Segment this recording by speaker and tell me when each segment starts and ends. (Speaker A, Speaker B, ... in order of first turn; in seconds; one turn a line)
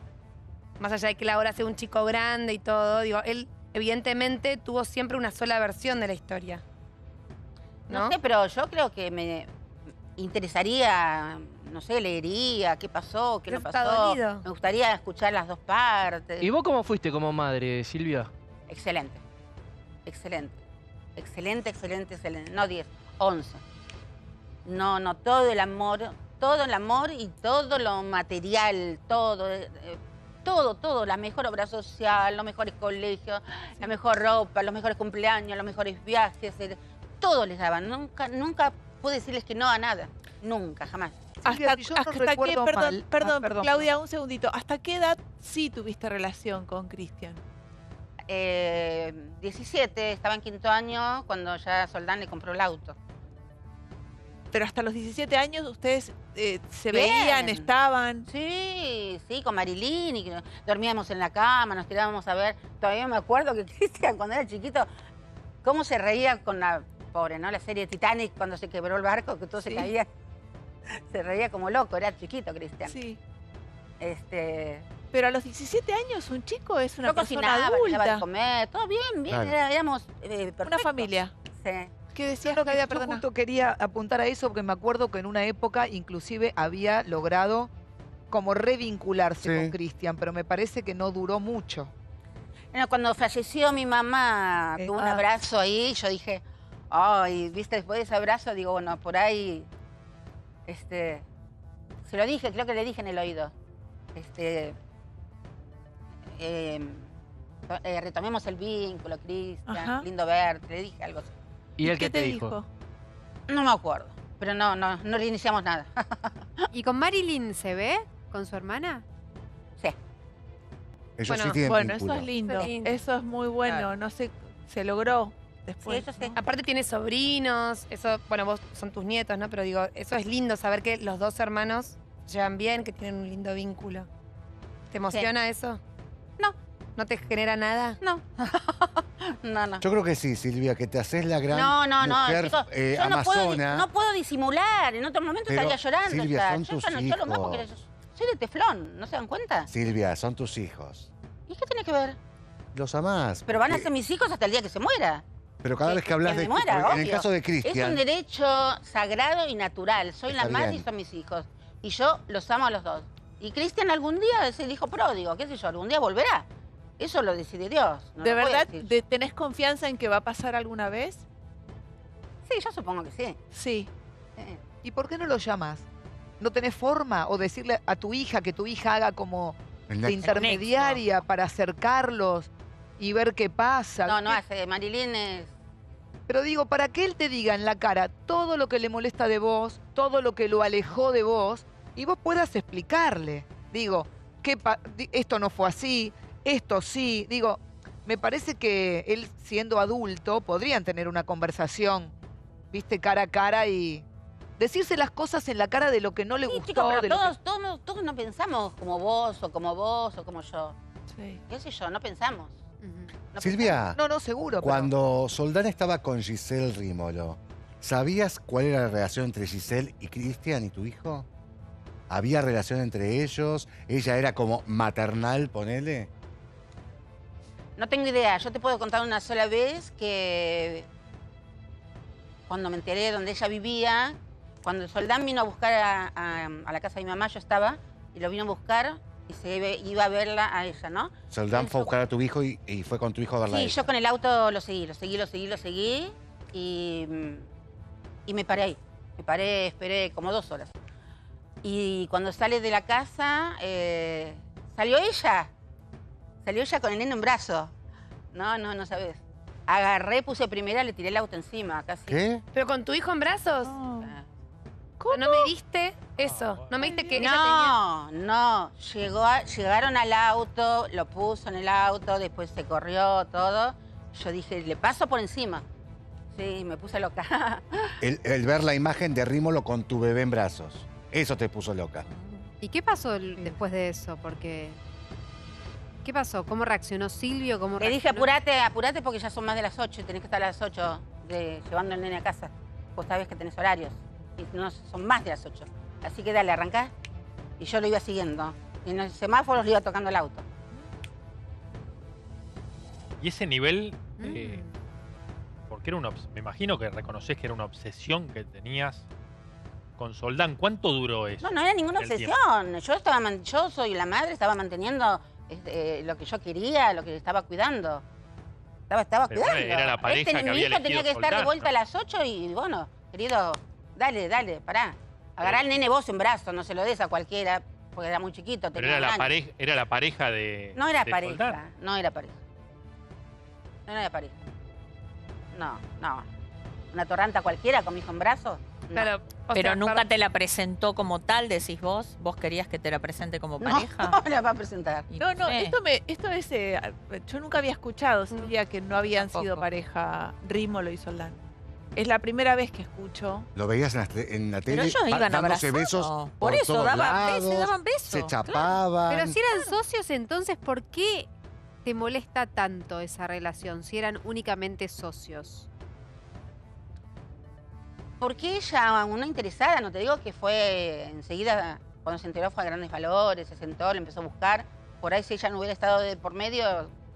Speaker A: 0.8-6.6
Speaker A: 7.9-8.2
Speaker B: 7.9-9.5
Speaker B: 10.2-16.5
Speaker A: 13.5-14.4
Speaker C: 16.4-18.3
Speaker B: 18.7-19.2
Speaker B: 20.1-20.6
Speaker B: 21.1-23.6
Speaker B: 24.6-41.6
Speaker D: 41.4-47.4
Speaker E: 41.5-43.9
Speaker B: 48.3-53.0
Speaker D: 54.5-58.2
Speaker B: 56.9-57.7
Speaker B: 58.3-64.9
Speaker B: 65.6-70.1
Speaker D: 69.6-69.9
Speaker B: 71.1-73.0
Speaker D: 72.9-73.2
Speaker B: 74.0-74.9
Speaker D: 75.1-78.2
Speaker B: 77.1-81.9
Speaker F: 79.3-79.5
Speaker D: 80.6-81.3
Speaker D: 82.1-83.2
Speaker E: 82.4-87.7
Speaker E: 88.3-91.9
Speaker F: 89.4-89.7
Speaker B: 92.7-99.7
Speaker E: 94.8-95.2
Speaker B: 100.7-101.2
Speaker B: 102.0-103.5
Speaker B: 104.1-104.8
Speaker B: 106.4-107.1
Speaker B: 107.7-111.3
Speaker D: 109.7-110.0
Speaker C: 111.8-112.6
Speaker D: 111.8-112.7
Speaker B: 113.5-116.6
Speaker G: 116.7-119.0
Speaker F: 121.2-122.3
Speaker A: 121.3-121.6
Speaker D: 121.6-126.3
Speaker A: 122.5-122.9
Speaker B: 125.8-126.4
Speaker A: 126.3-134.1
Speaker A: 134.9-135.8
Speaker A: 137.0-138.0
Speaker B: 138.0-139.8
Speaker F: 139.8-143.9
Speaker B: 141.5-149.7
Speaker F: 145.5-147.7
Speaker F: 149.7-151.1
Speaker B: 151.5-152.2
Speaker F: 152.7-153.9
Speaker B: 153.5-155.2
Speaker F: 155.6-158.0
Speaker B: 155.8-166.5
Speaker F: 160.3-160.8
Speaker B: 167.0-168.9
Speaker D: 168.2-171.2
Speaker B: 172.4-173.4
Speaker D: 173.5-173.9
Speaker E: 174.8-175.8
Speaker E: 176.4-184.4
Speaker F: 179.9-180.5
Speaker H: 180.2-181.0
Speaker B: 184.1-185.5
Speaker E: 186.3-202.1
Speaker E: 202.7-204.0
Speaker E: 204.6-207.3
Speaker B: 206.5-210.8
Speaker D: 211.1-211.4
Speaker B: 211.5-212.6
Speaker G: 212.8-213.1
Speaker B: 213.3-213.9
Speaker F: 213.4-214.0
Speaker E: 213.9-214.9
Speaker F: 214.6-221.3
Speaker F: 222.1-226.1
Speaker B: 227.8-230.9
Speaker B: 232.5-241.9
Speaker F: 241.3-243.9
Speaker B: 243.5-247.5
Speaker B: 248.3-250.7
Speaker B: 251.6-255.5
Speaker B: 256.4-257.7
Speaker B: 258.3-262.2
Speaker F: 262.1-262.4
Speaker A: 262.5-263.8
Speaker D: 263.6-264.1
Speaker D: 265.0-265.5
Speaker A: 265.1-267.8
Speaker I: 266.2-266.8
Speaker D: 266.8-267.2
Speaker B: 267.1-275.6
Speaker B: 276.3-277.9
Speaker F: 278.0-282.1
Speaker H: 282.1-282.5
Speaker G: 282.6-284.8
Speaker G: 286.0-288.3
Speaker B: 287.8-296.9
Speaker B: 297.6-300.4
Speaker I: 303.2-304.3
Speaker G: 304.2-304.7
Speaker C: 304.2-304.6
Speaker I: 305.7-309.1
Speaker I: 310.0-312.3
Speaker B: 311.4-318.0
Speaker B: 318.9-329.3
Speaker I: 319.3-321.7
Speaker I: 328.8-331.6
Speaker B: 330.7-332.4
Speaker B: 333.9-334.4
Speaker B: 335.5-336.3
Speaker B: 336.9-339.1
Speaker A: 338.9-340.1
Speaker H: 339.6-344.2
Speaker B: 343.6-345.1
Speaker H: 345.1-345.8
Speaker D: 345.2-351.4
Speaker H: 349.0-349.6
Speaker D: 351.9-353.5
Speaker F: 353.5-359.4
Speaker H: 354.7-358.8
Speaker G: 359.1-361.3
Speaker G: 361.8-365.7
Speaker B: 368.2-376.9